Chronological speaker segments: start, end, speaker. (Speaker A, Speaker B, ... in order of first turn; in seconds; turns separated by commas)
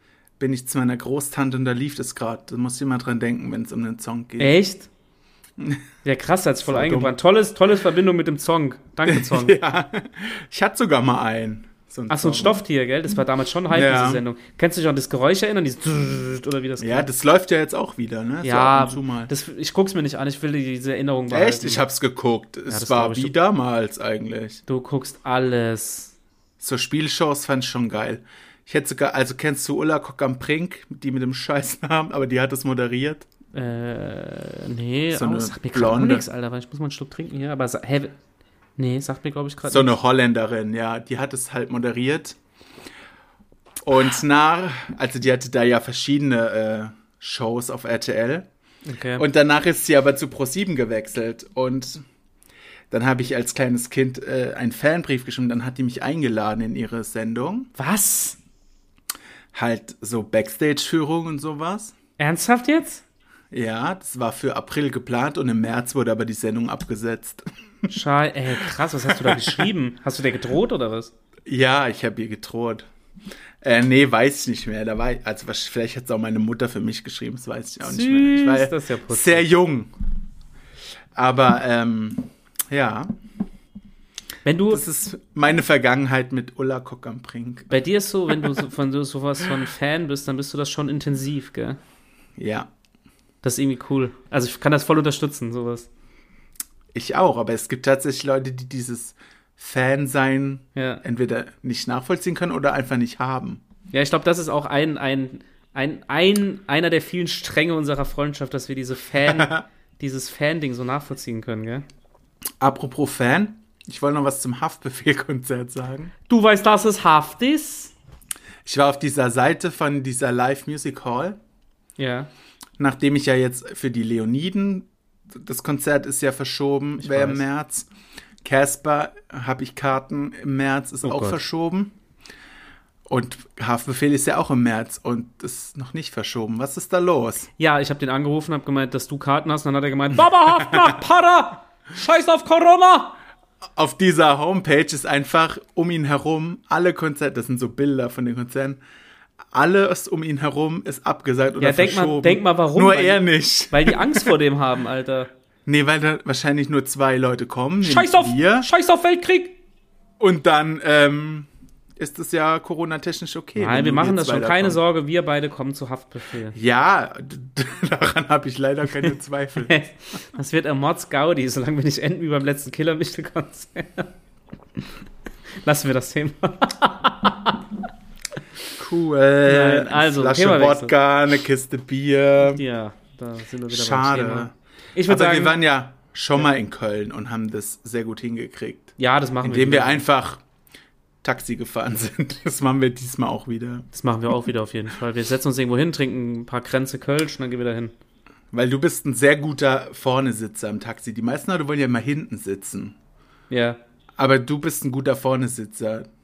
Speaker A: 0.4-4.5, Speaker B: 4.4-4.9, Speaker B: 6.0-9.6, Speaker A: 6.7-7.1, Speaker A: 9.0-12.6, Speaker B: 12.1-17.1, Speaker A: 13.7-14.2, Speaker A: 16.8-19.3, Speaker B: 18.4-21.8, Speaker A: 21.3-24.6, Speaker B: 22.7-23.3, Speaker B: 24.7-26.1, Speaker A: 26.6-33.2, Speaker B: 33.5-38.1, Speaker A: 35.1-36.2, Speaker B: 38.8-40.0, Speaker A: 39.7-42.4, Speaker A: 43.8-48.5, Speaker B: 48.8-49.2, Speaker A: 49.1-52.0, Speaker A: 52.9-57.7, Speaker B: 57.8-58.4, Speaker A: 59.5-61.9, Speaker B: 62.2-63.0, Speaker A: 63.5-67.9, Speaker B: 67.9-71.1, Speaker A: 69.1-69.5, Speaker A: 71.5-72.9, Speaker A: 73.6-79.9, Speaker B: 77.8-79.4, Speaker A: 81.1-83.1, Speaker B: 84.4-84.8, Speaker A: 84.7-87.7, Speaker B: 87.7-91.8, Speaker A: 92.4-92.7, Speaker B: 93.4-95.9, Speaker A: 96.9-103.6, Speaker B: 100.7-101.0, Speaker B: 103.9-111.8, Speaker A: 109.3-109.6, Speaker A: 112.6-116.1, Speaker B: 116.3-117.9, Speaker A: 118.6-121.4, Speaker B: 122.0-122.3, Speaker A: 122.8-127.9, Speaker B: 127.0-127.4, Speaker A: 128.4-131.9, Speaker B: 131.0-131.4, Speaker A: 133.1-137.5, Speaker B: 137.6-143.2, Speaker A: 143.8-148.8, Speaker A: 149.5-154.3, Speaker B: 151.6-155.3, Speaker A: 155.7-158.7, Speaker B: 157.8-159.6, Speaker A: 160.2-164.8, Speaker B: 163.6-166.6, Speaker A: 166.5-169.8, Speaker B: 169.7-174.1, Speaker B: 175.6-177.7, Speaker A: 178.8-182.6, Speaker B: 179.4-180.9, Speaker B: 182.5-185.6, Speaker A: 183.7-184.5, Speaker A: 185.1-190.4, Speaker B: 189.0-190.0, Speaker A: 191.2-193.9, Speaker B: 193.9-197.9, Speaker A: 198.5-202.9, Speaker B: 203.5-203.8, Speaker A: 204.2-206.1